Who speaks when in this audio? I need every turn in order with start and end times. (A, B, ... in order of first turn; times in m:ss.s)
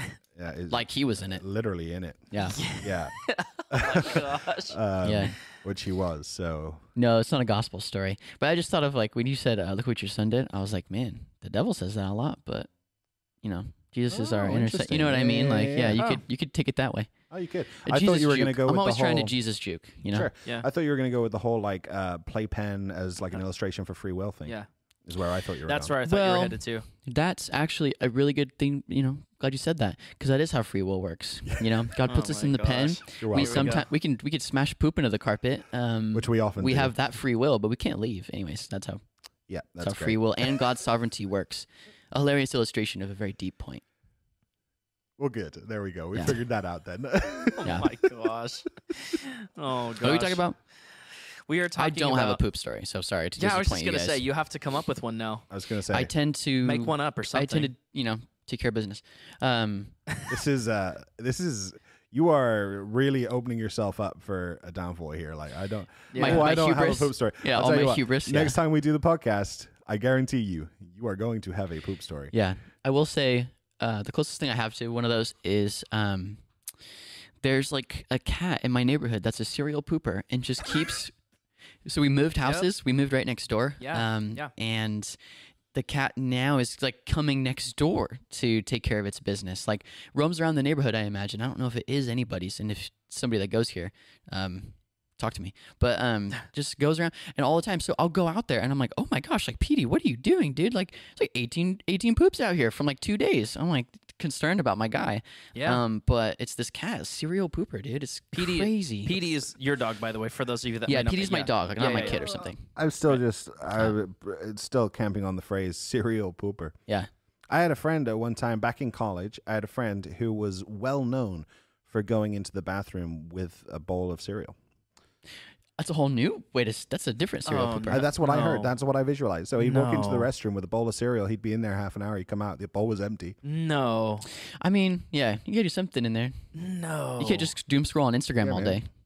0:00.3-0:03.2 A
0:00.7-0:01.4 B
0:02.3-0:02.6 B
0:02.5-0:04.8 C
0:03.7-0:06.9 A
0:05.0-0:05.4 B
0:07.0-0:12.7 B
0:13.4-0:17.1 B
0:14.1-0:16.0 A
0:16.0-0:16.2 C
0:17.3-0:19.4 A
0:17.8-0:20.3 B
0:20.1-0:25.9 A
0:25.6-0:26.9 C
0:26.0-0:39.0 B
0:32.0-0:33.9 C
0:33.2-0:33.8 A
0:36.1-0:36.9 A
0:39.5-0:40.6 A
0:39.8-0:43.8 B
0:45.2-0:48.2 A
0:47.6-0:50.4 C
0:50.0-0:50.6 B
0:51.5-0:52.4 C
0:51.8-0:54.2 B
0:53.4-0:55.4 C
0:55.5-0:56.1 A
0:55.9-0:59.9 B
0:56.6-0:57.7 C
1:00.3-1:12.3 A
1:06.1-1:06.5 C
1:06.2-1:08.6 B
1:12.3-1:16.4 B
1:17.4-1:21.1 B
1:21.8-1:25.2 B
1:22.4-1:22.7 C
1:23.8-1:24.5 C
1:25.7-1:49.4 B
1:45.5-1:45.8 C
1:48.3-1:52.2 C
1:50.9-1:52.7 B
1:52.0-1:56.8 A
1:57.5-2:04.6 A
2:05.8-2:08.0 B
2:07.4-2:08.7 C
2:07.9-2:13.4 A
2:09.6-2:10.3 C
2:13.4-2:14.2 C
2:14.3-2:16.4 B
2:16.5-2:17.5 C
2:17.2-2:18.9 B
2:18.4-2:18.8 A